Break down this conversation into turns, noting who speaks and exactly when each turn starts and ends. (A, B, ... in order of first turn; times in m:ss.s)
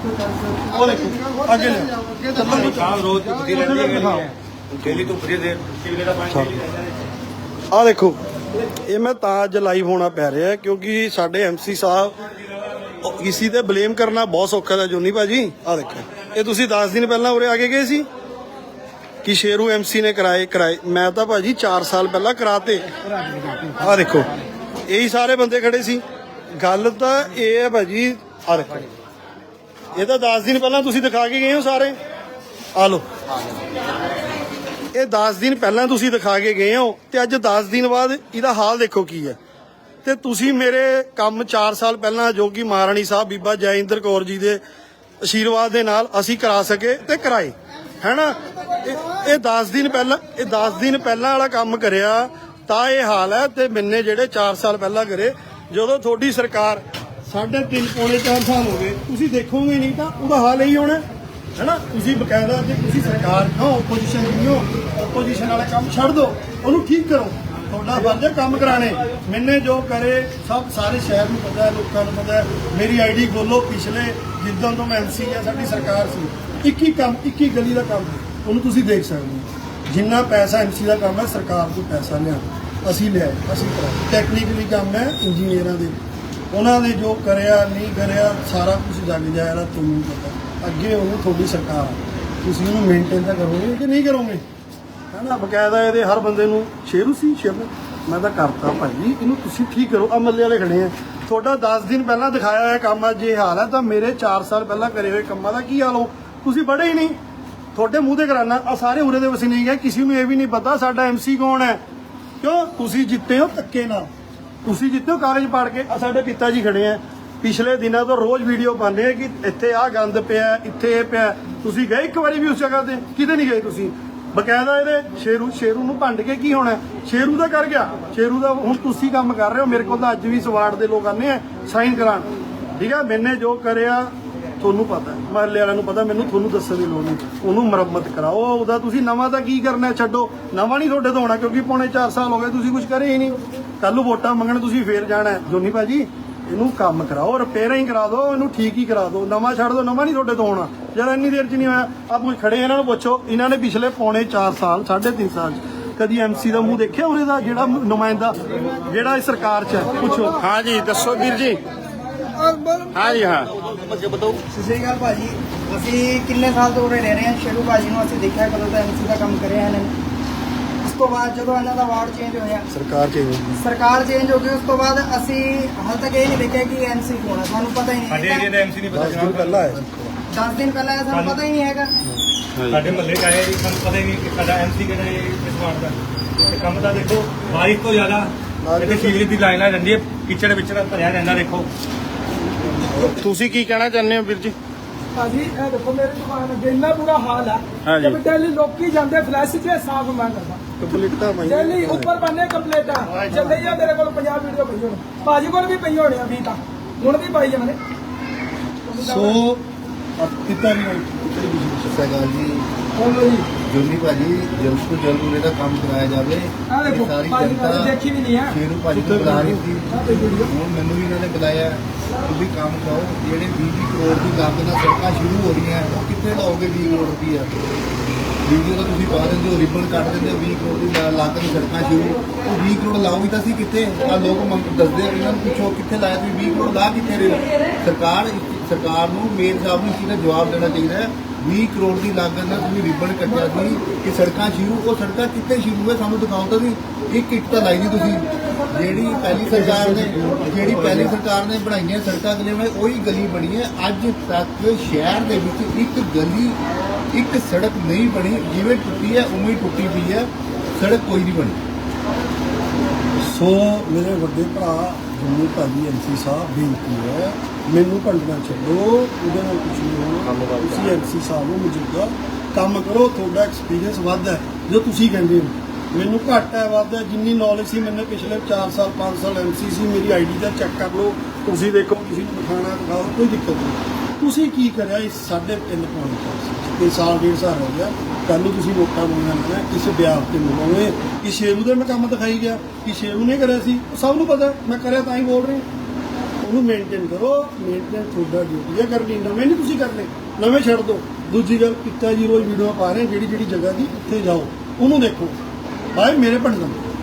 0:00.4-0:02.3 A
0:00.7-0:02.8 B
0:02.4-0:06.6 C
0:03.5-0:04.3 B
0:06.3-0:06.6 B
0:07.7-0:08.2 B
0:08.8-0:12.2 B
0:13.0-0:18.1 B
0:19.2-0:22.9 B
0:23.7-0:24.3 B
0:24.9-0:26.0 B
0:26.6-0:28.9 B
0:29.9-0:32.0 B
0:32.7-0:33.0 B
0:34.9-0:39.4 B
0:40.0-0:44.6 B
0:45.2-1:01.0 B
1:01.6-1:34.4 B
1:35.1-1:47.2 B
1:47.7-1:51.8 B
1:52.4-1:54.1 B
1:54.6-2:40.4 B
2:40.4-2:41.6 D
2:42.9-2:44.4 D
2:44.5-2:49.9 A
2:50.8-2:52.7 A
2:52.7-2:53.7 B
2:53.6-2:58.5 A
2:58.1-2:59.8 C
2:58.9-3:00.2 B
3:00.3-3:01.9 A
3:01.1-3:01.5 C
3:02.7-3:11.7 C
3:08.6-3:09.3 B
3:13.2-3:14.5 D
3:15.1-3:20.6 E
3:17.8-3:18.2 D
3:20.8-3:22.2 B
3:21.4-3:27.8 E
3:23.1-3:23.4 B
3:28.9-3:29.4 E
3:29.0-3:29.6 B
3:30.2-3:32.0 B
3:31.8-3:32.7 F
3:33.0-3:33.5 E
3:33.6-3:47.5 F
3:36.7-3:38.5 E
3:39.0-3:39.6 B
3:39.9-3:40.5 E
3:48.4-4:16.6 F
4:09.5-4:10.4 B
4:17.1-4:21.6 F
4:23.2-4:55.6 B
4:30.2-4:31.0 F
4:56.4-5:05.4 B
5:05.9-5:06.9 B